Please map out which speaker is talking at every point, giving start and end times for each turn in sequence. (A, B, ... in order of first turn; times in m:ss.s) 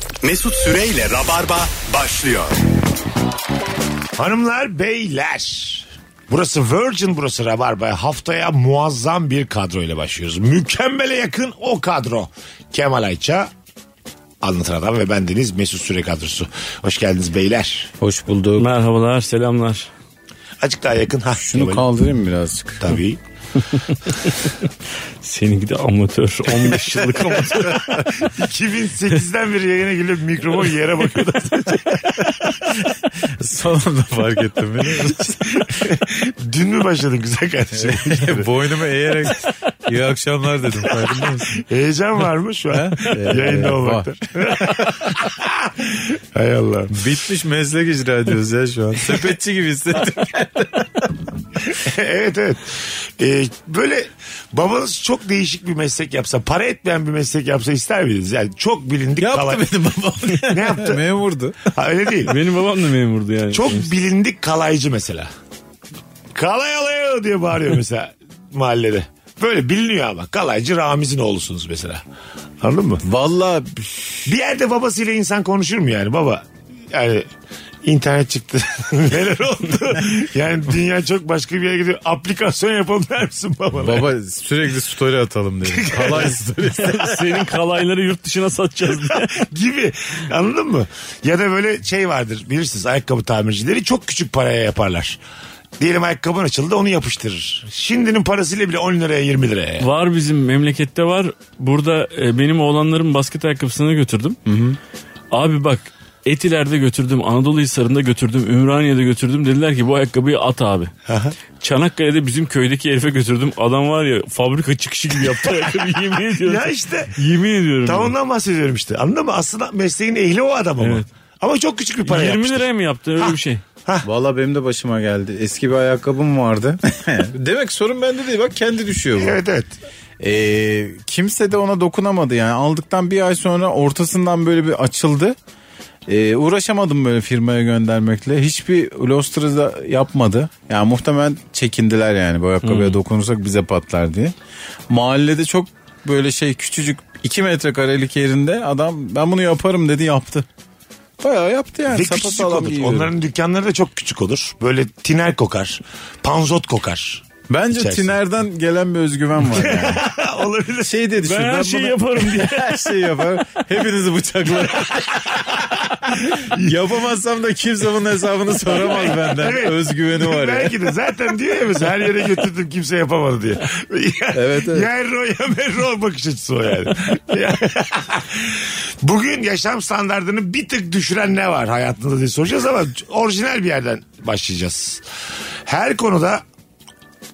0:00.2-0:02.6 A
0:04.2-0:13.5 B
0:14.4-0:17.9 B
0:18.0-0:18.7 C
0:18.6-0:19.9 D
0:20.6-0:21.9 B
0:21.4-0:23.0 C
0:22.8-0:23.2 B
0:25.2-0:27.9 D
0:26.6-0:32.6 B
0:27.4-0:28.1 C
0:33.2-0:35.8 C
0:35.0-0:38.5 B
0:37.7-0:41.6 C
0:40.8-0:47.0 B
0:42.7-0:45.2 C
0:46.9-0:51.1 C
0:51.6-0:59.6 B
0:59.2-1:01.7 C
1:00.4-1:01.0 B
1:01.6-1:02.4 B
1:02.2-1:03.9 D
1:03.5-1:05.3 B
1:06.3-1:12.0 B
1:12.6-1:13.0 B
1:13.0-1:14.2 C
1:14.2-1:17.3 B
1:17.8-1:24.1 B
1:23.7-1:27.4 C
1:25.6-1:26.4 B
1:26.7-1:29.3 D
1:29.0-1:35.2 B
1:35.8-1:39.8 B
1:39.8-1:44.4 D
1:44.4-1:44.8 C
1:45.3-1:50.9 D
1:51.1-1:51.3 B
1:51.6-1:58.1 D
1:56.3-1:57.1 B
1:57.8-2:02.6 B
2:00.8-2:01.0 D
2:02.0-2:03.6 D
2:04.0-2:09.4 C
2:09.2-2:09.7 B
2:10.2-2:15.3 C
2:16.1-2:24.3 C
2:22.6-2:23.0 D
2:24.9-2:30.4 C
2:31.2-2:33.1 C
2:31.9-2:37.2 B
2:37.5-2:40.1 C
2:37.8-2:38.1 B
2:39.5-2:40.9 B
2:40.8-2:50.9 C
2:41.2-2:43.0 D
2:44.9-2:46.8 B
2:48.6-3:05.0 B
2:54.3-2:54.9 C
3:05.6-3:06.4 B